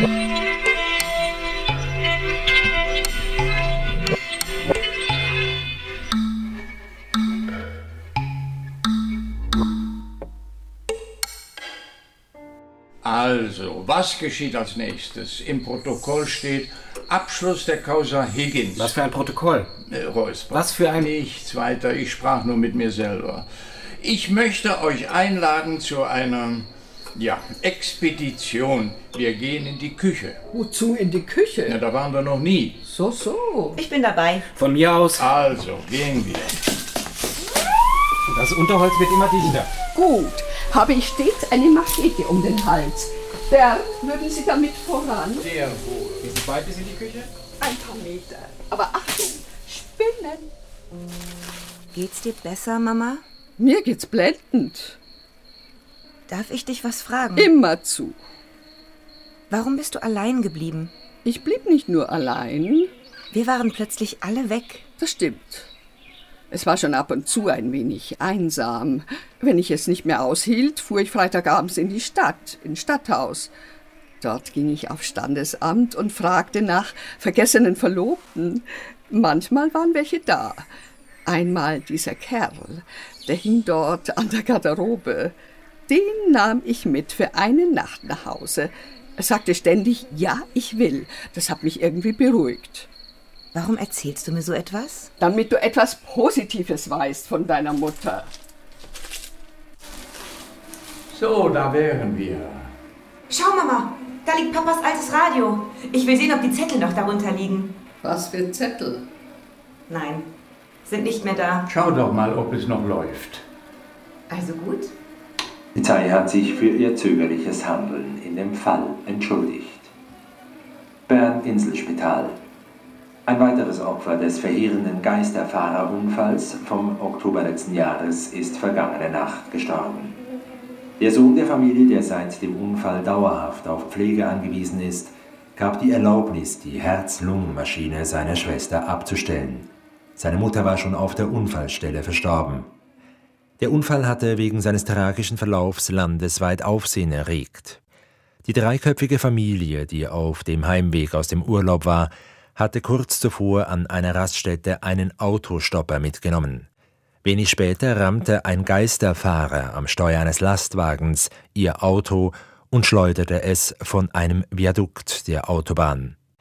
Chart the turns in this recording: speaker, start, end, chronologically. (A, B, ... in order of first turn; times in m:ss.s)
0:13.0-0:18.9 A
0:18.8-0:19.7 B
0:19.9-0:23.4 A
0:20.5-0:21.1 B
0:24.0-0:30.4 A
0:30.5-0:31.8 C
0:31.7-0:32.8 A
0:32.9-0:33.8 C
0:33.8-0:34.4 D
0:34.5-0:35.3 B
0:35.2-0:36.6 A
0:38.3-0:39.7 B
0:39.9-0:45.5 C
0:45.4-0:46.3 A
0:46.2-0:47.3 B
0:47.6-0:50.5 C
0:51.9-0:53.2 D
0:53.6-0:55.0 C
0:56.3-0:57.5 D
0:57.4-0:58.2 C
0:59.5-1:00.9 D
1:01.2-1:02.9 C
1:03.3-1:04.8 D
1:05.0-1:05.7 C
1:06.5-1:13.5 C
1:14.2-1:20.7 C
1:21.3-1:25.3 C
1:25.9-1:32.9 C
1:33.5-1:35.1 D
1:35.2-1:38.3 C
1:41.1-1:42.7 A
1:43.3-1:47.8 D
1:48.0-1:49.1 C
1:49.9-1:50.3 D
1:50.9-1:51.7 D
1:51.7-1:53.4 A
1:54.3-1:54.9 D
1:55.7-1:59.9 E
2:01.1-2:02.4 E
2:03.3-2:10.2 E
2:11.0-2:22.7 E
2:23.6-2:27.8 E
2:28.4-2:36.7 E
2:37.2-2:46.2 E